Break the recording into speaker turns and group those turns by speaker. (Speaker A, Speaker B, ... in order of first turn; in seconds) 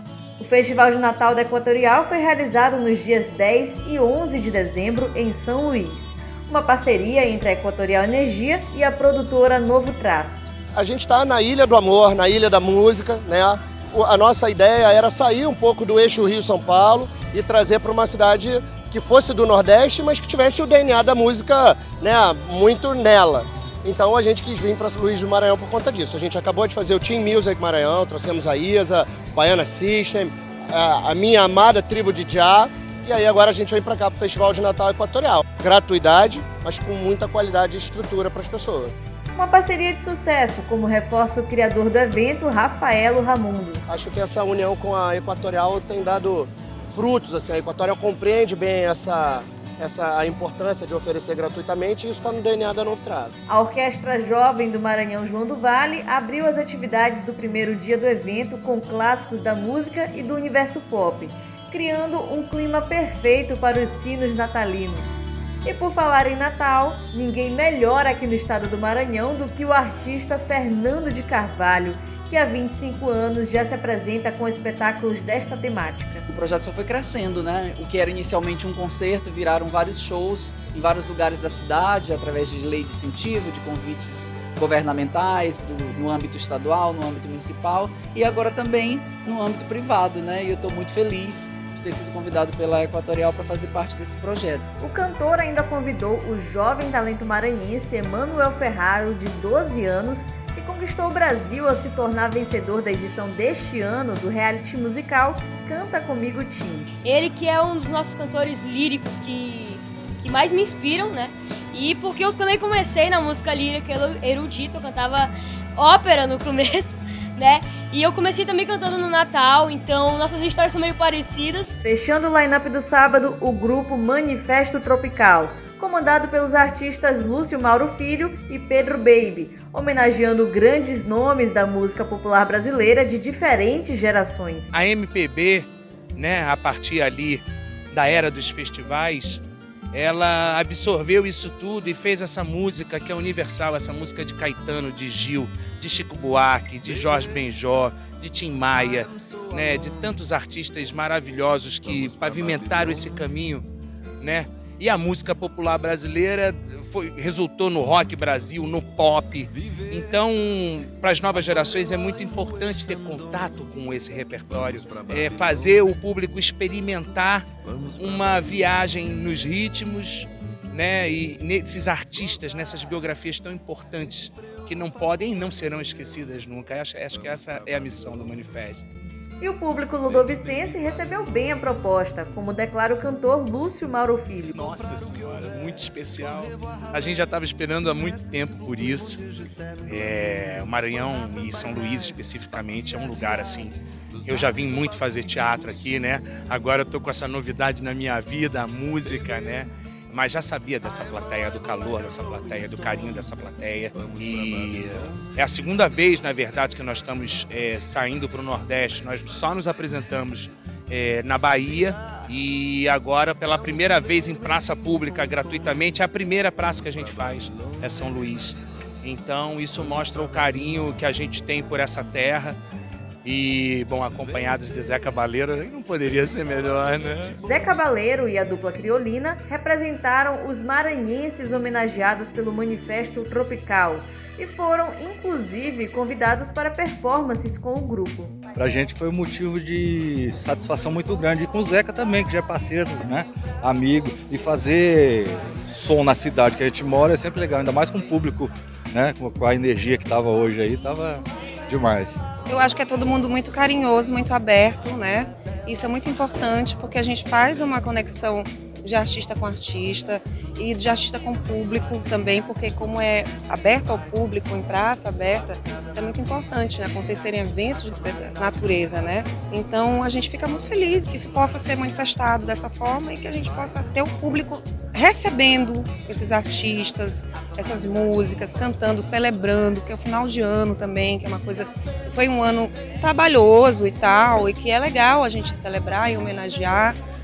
Speaker A: 0.4-10.5, 39.4-43.8, 53.5-76.2, 94.8-106.9, 121.8-134.7, 179.4-184.6, 227.4-238.3
Speaker B: 10.8-38.9, 43.9-53.3
Speaker C: 76.3-94.7
Speaker D: 107.0-121.8
Speaker E: 134.7-153.7, 154.2-178.9, 184.5-189.2, 189.9-222.6, 223.2-227.4
Speaker F: 238.6-252.2
Speaker G: 252.5-287.0